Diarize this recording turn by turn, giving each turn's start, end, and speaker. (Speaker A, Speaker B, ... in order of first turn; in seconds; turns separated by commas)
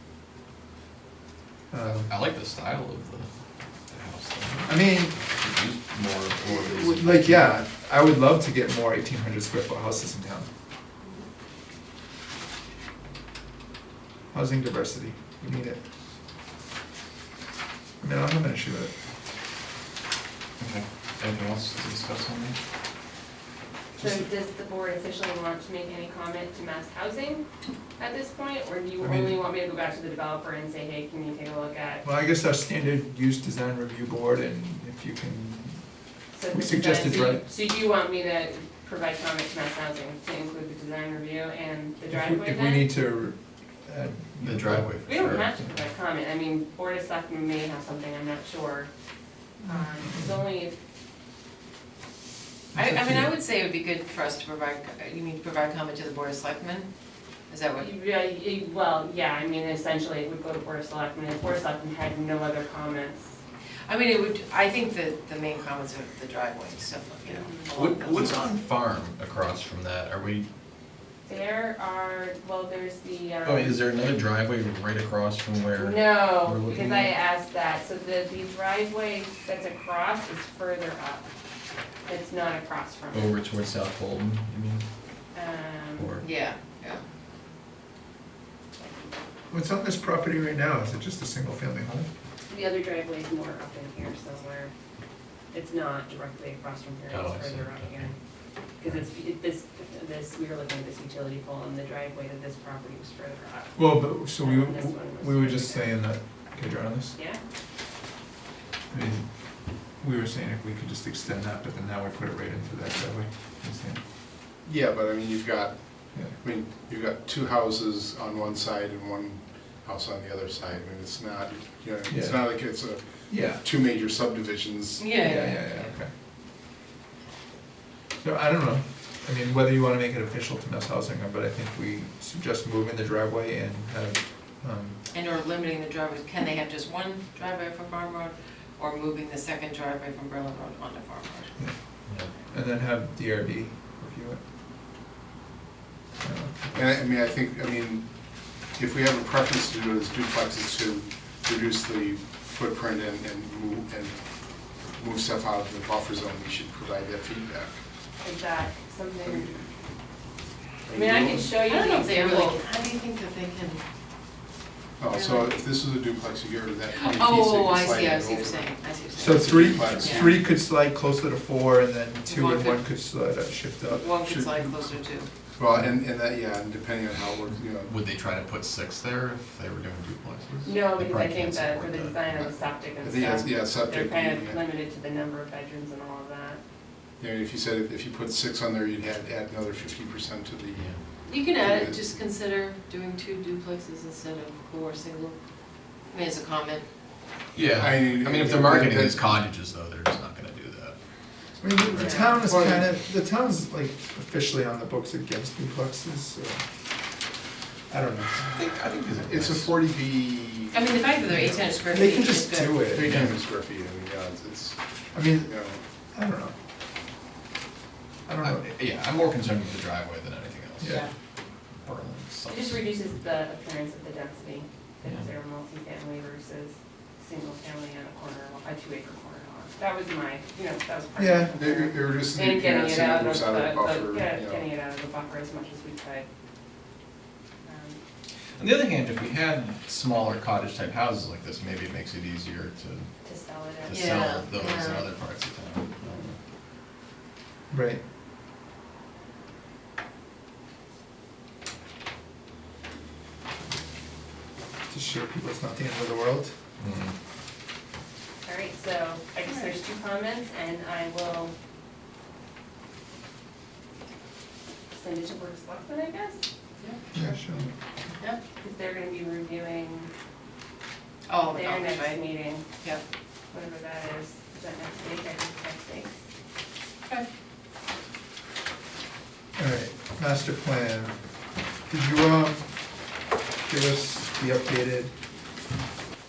Speaker A: 1.7-2.1, Speaker B: 2.1-3.3, Speaker B: 3.9-7.6, Speaker A: 4.7-5.2, Speaker A: 6.7-10.5, Speaker A: 14.3-15.8, Speaker A: 18.0-18.9, Speaker B: 20.6-22.6, Speaker C: 24.0-27.4, Speaker A: 24.0-24.2, Speaker C: 28.0-32.0, Speaker A: 29.0-29.4, Speaker A: 32.0-35.8, Speaker C: 36.3-42.9, Speaker A: 36.5-37.4, Speaker A: 42.1-44.9, Speaker B: 44.4-45.5, Speaker C: 45.1-48.9, Speaker A: 49.6-50.4, Speaker C: 49.6-50.7, Speaker A: 52.7-53.3, Speaker D: 52.7-56.9, Speaker D: 57.5-57.9, Speaker C: 57.7-63.3, Speaker D: 63.9-68.5, Speaker C: 67.2-67.7, Speaker B: 67.7-70.5, Speaker C: 71.2-73.8, Speaker B: 73.4-77.2, Speaker C: 75.7-81.3, Speaker C: 82.1-83.3, Speaker B: 83.1-84.8, Speaker C: 85.3-86.1, Speaker B: 86.0-86.2, Speaker D: 86.2-87.0, Speaker A: 89.5-92.1, Speaker C: 92.5-94.7, Speaker C: 95.5-98.1, Speaker B: 97.1-98.1, Speaker C: 98.8-106.0, Speaker A: 103.8-107.1, Speaker A: 108.9-109.2, Speaker A: 110.0-114.0, Speaker E: 114.6-115.7, Speaker E: 116.4-125.1, Speaker A: 122.1-122.6, Speaker A: 123.3-123.6, Speaker D: 125.0-125.7, Speaker A: 125.2-126.1, Speaker A: 128.2-135.0, Speaker D: 135.1-141.6, Speaker A: 142.3-144.4, Speaker A: 146.2-146.9, Speaker E: 146.7-148.1, Speaker E: 148.7-154.1, Speaker E: 155.0-157.8, Speaker C: 158.2-159.6, Speaker E: 160.9-161.5, Speaker C: 160.9-162.7, Speaker D: 161.7-163.8, Speaker E: 165.0-168.7, Speaker D: 165.1-165.5, Speaker D: 166.9-170.3, Speaker A: 169.1-174.1, Speaker E: 169.3-170.4, Speaker D: 172.2-172.8, Speaker D: 173.9-175.3, Speaker E: 174.2-174.7, Speaker E: 175.6-177.9, Speaker B: 177.8-182.5, Speaker C: 180.6-186.6, Speaker E: 183.0-184.6, Speaker E: 187.2-190.9, Speaker D: 191.2-195.3, Speaker E: 191.5-192.1, Speaker D: 196.1-196.8, Speaker B: 197.5-200.9, Speaker E: 197.6-199.3, Speaker A: 201.6-206.6, Speaker B: 201.9-202.3, Speaker D: 202.0-202.4, Speaker E: 202.4-202.9, Speaker A: 207.9-208.4, Speaker B: 208.4-209.8, Speaker E: 209.2-211.8, Speaker D: 210.7-212.8, Speaker A: 211.9-213.2, Speaker E: 212.9-215.8, Speaker B: 213.1-213.3, Speaker A: 215.1-215.6, Speaker A: 216.1-216.5, Speaker A: 218.3-218.7, Speaker B: 218.4-221.0, Speaker A: 220.8-221.1, Speaker B: 221.8-222.8, Speaker C: 222.5-236.2, Speaker A: 231.2-231.5, Speaker E: 231.6-234.6, Speaker C: 237.6-238.0, Speaker B: 238.6-243.1, Speaker C: 243.2-244.0, Speaker B: 243.8-246.4, Speaker D: 243.9-245.1, Speaker A: 247.7-248.0, Speaker A: 254.9-256.5, Speaker B: 256.8-257.1, Speaker C: 258.4-261.5, Speaker D: 259.4-259.7, Speaker C: 264.9-266.4, Speaker A: 267.1-267.7, Speaker C: 267.1-267.7, Speaker C: 268.5-270.1, Speaker D: 271.3-272.2, Speaker C: 271.4-272.6, Speaker C: 273.5-276.1, Speaker A: 279.6-281.2, Speaker A: 281.9-282.7, Speaker A: 283.6-285.1